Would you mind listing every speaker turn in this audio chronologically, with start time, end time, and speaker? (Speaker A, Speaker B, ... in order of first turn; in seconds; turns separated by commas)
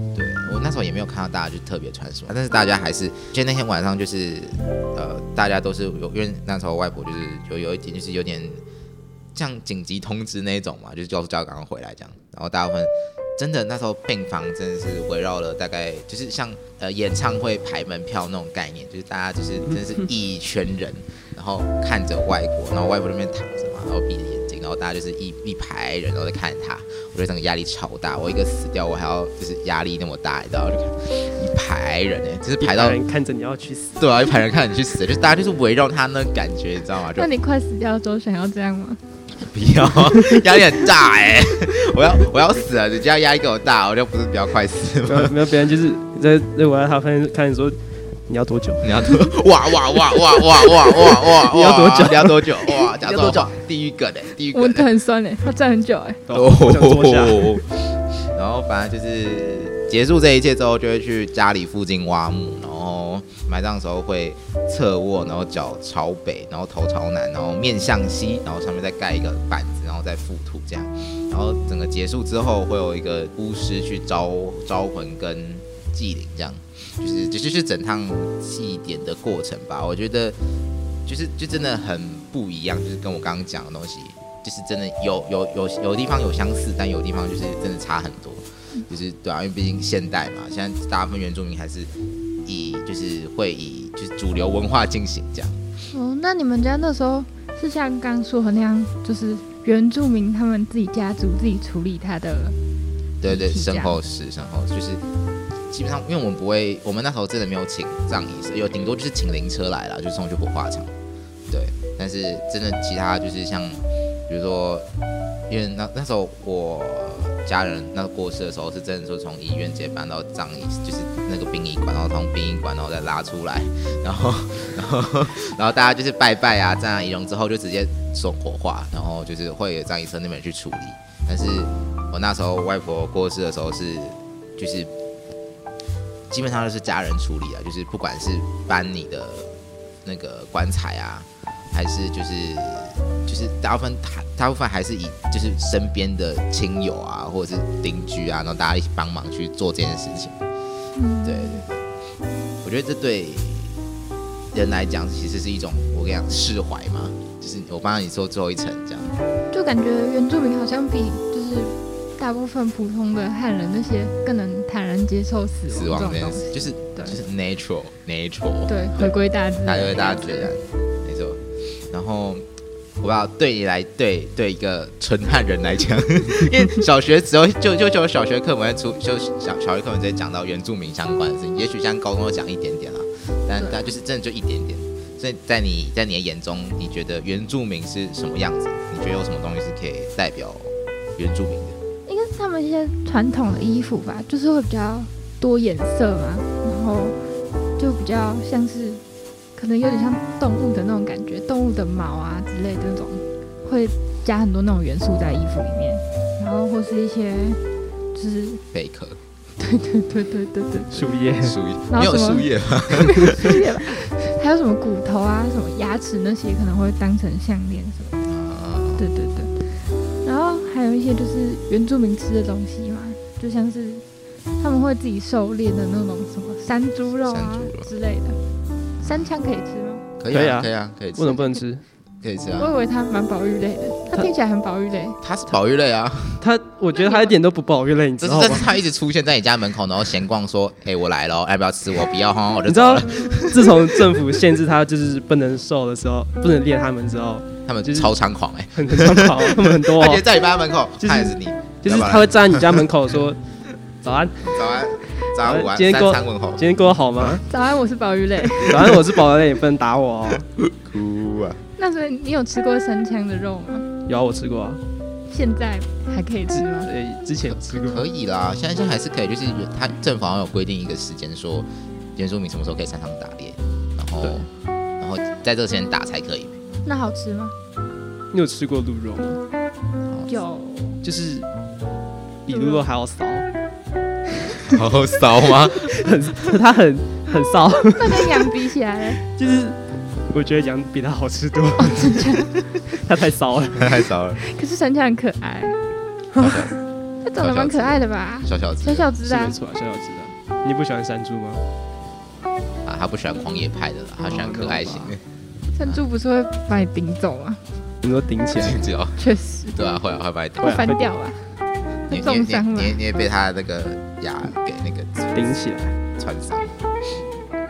Speaker A: 0.1-8.6, Speaker A: 9.3-33.0, Speaker B: 32.6-34.0, Speaker A: 34.0-37.3, Speaker C: 37.2-39.0, Speaker A: 39.4-45.4, Speaker B: 45.0-48.9, Speaker A: 48.8-54.9, Speaker B: 51.2-52.5, Speaker B: 53.0-53.4, Speaker C: 54.5-56.2, Speaker B: 56.3-57.6, Speaker A: 56.3-80.4, Speaker A: 81.1-91.9, Speaker A: 92.5-95.6, Speaker C: 95.9-102.6, Speaker A: 103.2-105.0, Speaker C: 103.2-104.0, Speaker A: 105.7-110.9, Speaker A: 111.5-114.9, Speaker A: 115.5-134.9, Speaker A: 136.3-150.4, Speaker C: 150.9-151.6, Speaker A: 151.2-151.7, Speaker A: 152.6-153.8, Speaker A: 154.5-159.2, Speaker C: 159.5-167.2, Speaker A: 165.7-169.1, Speaker C: 168.7-170.5, Speaker A: 169.6-172.4, Speaker A: 173.0-191.8, Speaker C: 192.1-197.2, Speaker C: 197.8-199.0, Speaker C: 199.6-207.6, Speaker C: 208.1-208.6, Speaker A: 208.7-209.2, Speaker C: 209.6-211.0, Speaker B: 210.9-211.6, Speaker A: 211.4-213.6, Speaker C: 211.9-218.2, Speaker A: 218.3-219.1, Speaker C: 219.0-219.5, Speaker C: 220.2-224.0, Speaker C: 224.6-228.4, Speaker A: 227.3-227.9, Speaker A: 229.0-229.3, Speaker C: 229.0-230.1, Speaker A: 230.2-231.6, Speaker B: 230.3-231.8, Speaker A: 232.2-232.7, Speaker C: 232.6-235.2, Speaker A: 235.2-236.4, Speaker B: 236.4-238.7, Speaker C: 237.0-237.3, Speaker A: 238.2-244.2, Speaker B: 242.7-248.1, Speaker A: 247.7-252.8, Speaker B: 248.7-250.2, Speaker B: 251.0-253.4, Speaker B: 254.0-254.6, Speaker A: 254.4-256.6, Speaker B: 255.4-257.4, Speaker C: 257.4-258.9, Speaker B: 258.6-260.5, Speaker A: 260.6-261.6, Speaker C: 261.8-263.9, Speaker B: 264.1-264.8, Speaker C: 265.3-266.9, Speaker B: 266.5-268.1, Speaker A: 267.5-274.5, Speaker B: 274.2-274.5, Speaker A: 275.0-276.6, Speaker C: 276.9-277.5, Speaker B: 278.3-279.4, Speaker C: 280.3-281.0, Speaker B: 281.0-281.5, Speaker B: 282.5-283.5, Speaker C: 282.5-282.9, Speaker A: 284.6-285.9, Speaker B: 285.6-288.5, Speaker C: 287.9-289.2, Speaker B: 289.2-294.0, Speaker C: 291.8-292.6, Speaker A: 293.8-294.4, Speaker C: 294.4-295.8, Speaker B: 296.3-296.8, Speaker A: 296.4-296.8, Speaker C: 297.2-299.6, Speaker A: 297.4-299.1, Speaker B: 299.2-301.6, Speaker A: 302.9-305.2, Speaker B: 304.2-305.2, Speaker C: 305.7-307.6, Speaker B: 308.0-308.8, Speaker A: 308.6-309.2, Speaker C: 309.2-309.8, Speaker A: 309.7-310.8, Speaker B: 310.6-311.1, Speaker C: 310.6-311.4, Speaker C: 312.1-313.1, Speaker A: 312.1-315.6, Speaker B: 315.3-316.0, Speaker A: 316.2-316.8